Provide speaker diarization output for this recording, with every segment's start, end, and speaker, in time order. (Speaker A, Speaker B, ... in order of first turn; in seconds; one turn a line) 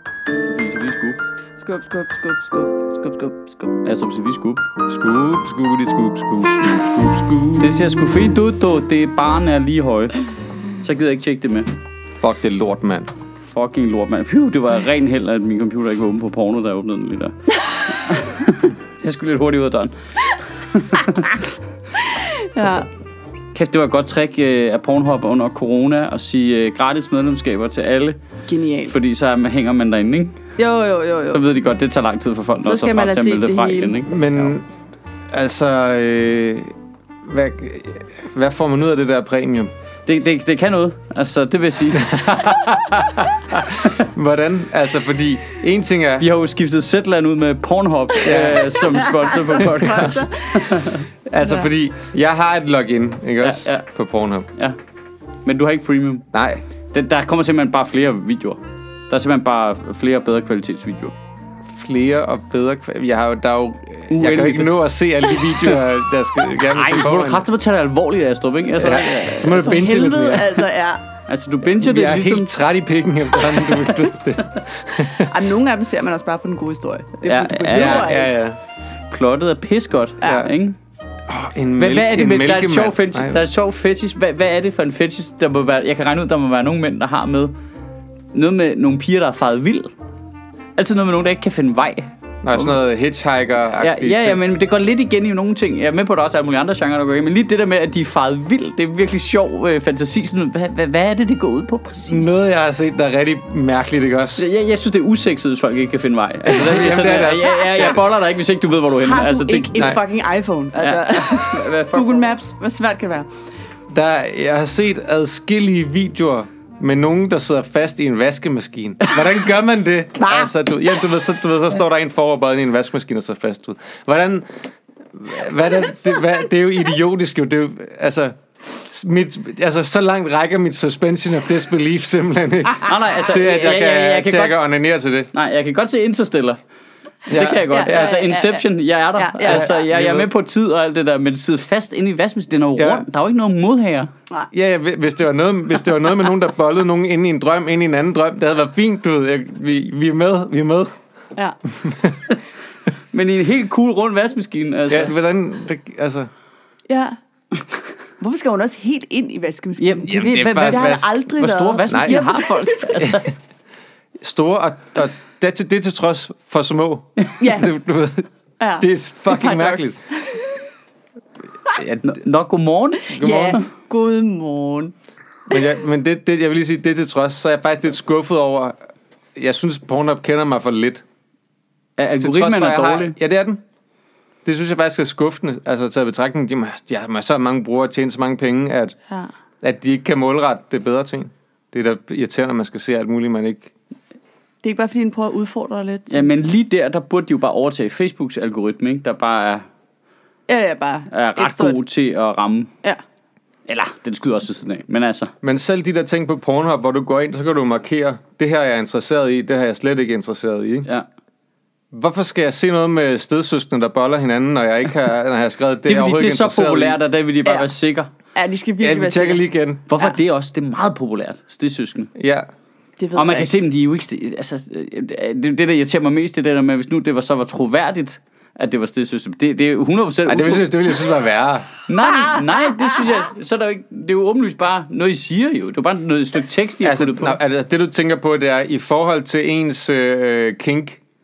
Speaker A: 0.4-1.2
Speaker B: 1.6-3.8
Speaker A: 3.8-4.6
Speaker C: 4.8-7.9
Speaker A: 7.6-10.2
Speaker A: 10.8-11.7
Speaker C: 12.2-13.1
Speaker A: 13.5-17.3
Speaker A: 17.9-21.5
Speaker B: 22.0-22.9
Speaker A: 23.5-28.2
Speaker B: 28.5-28.9
Speaker A: 28.9-30.4
Speaker B: 30.6-31.4
Speaker A: 31.3-34.5
Speaker B: 32.6-34.0
Speaker C: 34.0-34.7
Speaker C: 35.3-39.7
Speaker A: 40.1-42.2
Speaker C: 41.9-46.3
Speaker A: 46.2-51.1
Speaker C: 48.2-48.7
Speaker B: 48.8-50.8
Speaker C: 49.8-50.1
Speaker C: 51.3-54.5
Speaker A: 53.4-53.9
Speaker A: 55.4-56.2
Speaker C: 56.3-56.6
Speaker A: 56.9-58.6
Speaker A: 59.1-61.1
Speaker C: 61.7-67.4
Speaker A: 64.1-65.7
Speaker A: 66.6-69.8
Speaker C: 68.8-70.7
Speaker B: 69.4-71.0
Speaker A: 71.3-72.5
Speaker C: 71.8-75.4
Speaker B: 75.0-78.3
Speaker A: 77.2-78.2
Speaker C: 77.7-78.6
Speaker A: 79.1-80.8
Speaker C: 80.2-80.5
Speaker B: 80.2-80.5
Speaker C: 81.3-83.4
Speaker A: 81.8-87.5
Speaker A: 88.3-89.9
Speaker A: 90.8-92.7
Speaker C: 92.4-94.4
Speaker A: 93.8-102.3
Speaker C: 102.1-104.4
Speaker A: 104.4-109.9
Speaker C: 106.5-108.0
Speaker B: 107.6-108.0
Speaker B: 109.0-113.3
Speaker A: 110.8-112.3
Speaker C: 113.9-124.5
Speaker B: 120.2-120.5
Speaker C: 125.1-135.3
Speaker A: 132.8-134.6
Speaker A: 135.3-136.6
Speaker C: 137.3-138.1
Speaker A: 137.3-144.1
Speaker B: 137.7-139.7
Speaker C: 139.4-140.3
Speaker C: 142.8-143.0
Speaker C: 144.5-150.9
Speaker C: 151.7-152.3
Speaker A: 153.1-155.1
Speaker C: 154.9-156.3
Speaker B: 156.9-157.2
Speaker B: 158.2-163.2
Speaker A: 159.8-163.3
Speaker C: 160.1-161.1
Speaker C: 164.2-168.2
Speaker B: 167.4-167.7
Speaker B: 168.6-170.6
Speaker C: 168.8-170.0
Speaker C: 171.7-172.2
Speaker A: 172.0-173.7
Speaker B: 173.1-174.9
Speaker C: 173.2-173.5
Speaker C: 175.5-178.8
Speaker C: 179.3-181.0
Speaker A: 182.0-183.2
Speaker C: 182.2-183.6
Speaker C: 184.4-188.9
Speaker C: 189.6-193.7
Speaker B: 194.6-196.3
Speaker A: 196.1-199.7
Speaker B: 200.5-201.8
Speaker A: 201.1-202.7
Speaker A: 203.7-205.3
Speaker C: 205.4-210.9
Speaker C: 211.9-217.0
Speaker A: 215.8-218.1
Speaker B: 217.4-217.7
Speaker B: 218.3-219.4
Speaker C: 218.8-219.8
Speaker A: 219.9-222.1
Speaker C: 222.2-222.5
Speaker B: 223.0-223.5
Speaker A: 223.1-231.0
Speaker C: 230.3-231.7
Speaker A: 231.9-237.4
Speaker B: 232.1-233.0
Speaker C: 236.8-241.0